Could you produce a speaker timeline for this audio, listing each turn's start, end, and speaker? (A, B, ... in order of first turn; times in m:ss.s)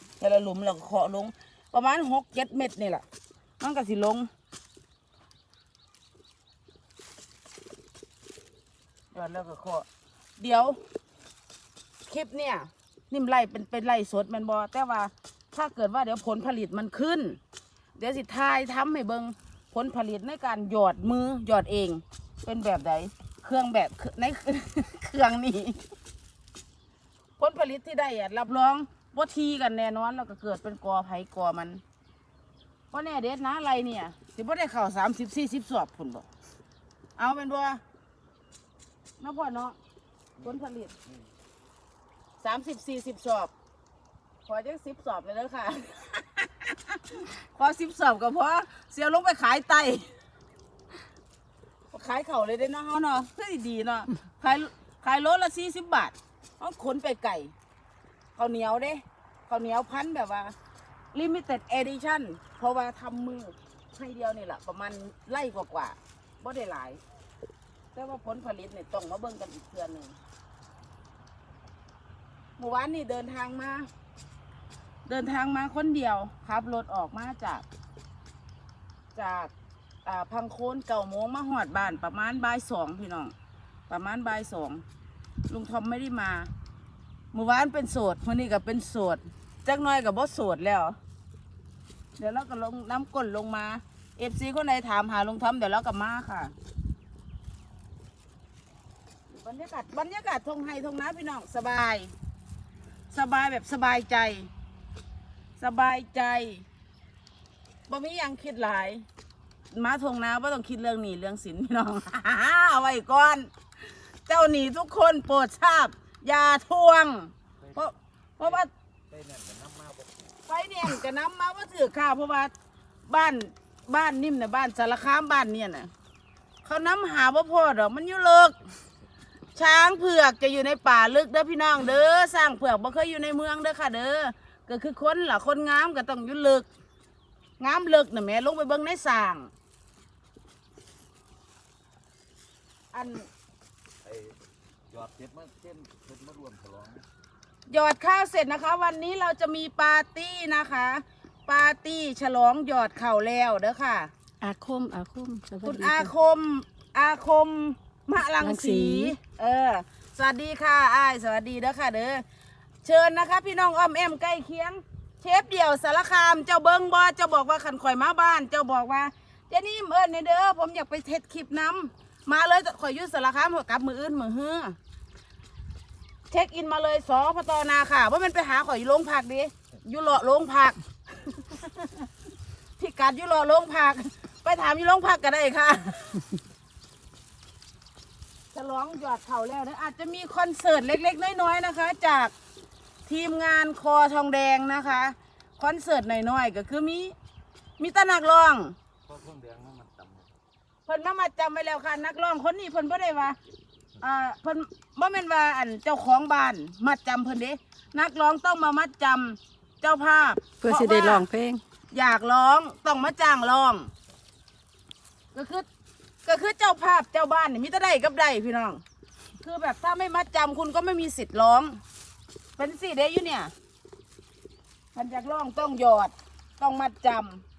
0:00.2-0:03.0 A
0:03.6-0:04.3 A
0:09.1-0:09.9 A
0:10.4-0:10.8 A
0:12.1-0:17.4 A
0:18.0-0:25.8 A
0:27.4-0:31.8 A
0:32.9-0:36.3 A
0:37.2-0:37.8 A
0:39.2-0:39.8 A
0:40.4-0:40.9 A
0:42.4-0:43.5 A
0:44.5-0:50.1 A
0:51.9-0:57.5 A
0:58.4-1:00.5 A
1:01.1-1:07.0 A
1:08.0-1:10.2 A
1:12.6-1:13.9 A
1:15.1-1:17.6 A
1:19.2-1:19.5 A
1:20.1-1:23.3 A
1:23.9-1:24.8 A
1:25.5-1:26.5 A
1:27.3-1:31.0 A
1:32.2-1:36.5 A
1:39.3-1:42.1 A
1:43.1-1:44.5 A
1:45.6-1:46.6 A
1:47.9-1:49.0 A
1:49.7-1:53.5 A
1:54.3-1:58.7 A
1:57.6-2:00.3 B
2:00.5-2:02.5 A
2:03.1-2:05.9 A
2:06.6-2:08.6 A
2:09.6-2:16.7 A
2:17.6-2:19.5 A
2:22.9-2:23.3 A
2:24.0-2:24.4 B
2:24.9-2:27.1 B
2:27.7-2:34.1 A
2:34.4-2:36.1 C
2:35.6-2:42.2 A
2:38.4-2:39.2 C
2:42.8-2:54.8 A
2:56.3-3:00.8 A
3:01.3-3:02.1 A
3:02.8-3:06.3 A
3:08.5-3:12.3 A
3:13.1-3:17.2 A
3:17.8-3:18.8 A
3:19.1-3:20.3 B
3:20.9-3:23.4 A
3:24.0-3:31.2 A
3:30.6-3:31.6 C
3:31.9-3:33.9 A
3:35.3-3:35.7 A
3:36.2-3:38.8 A
3:39.4-3:41.8 A
3:42.6-3:43.5 A
3:45.0-3:47.4 A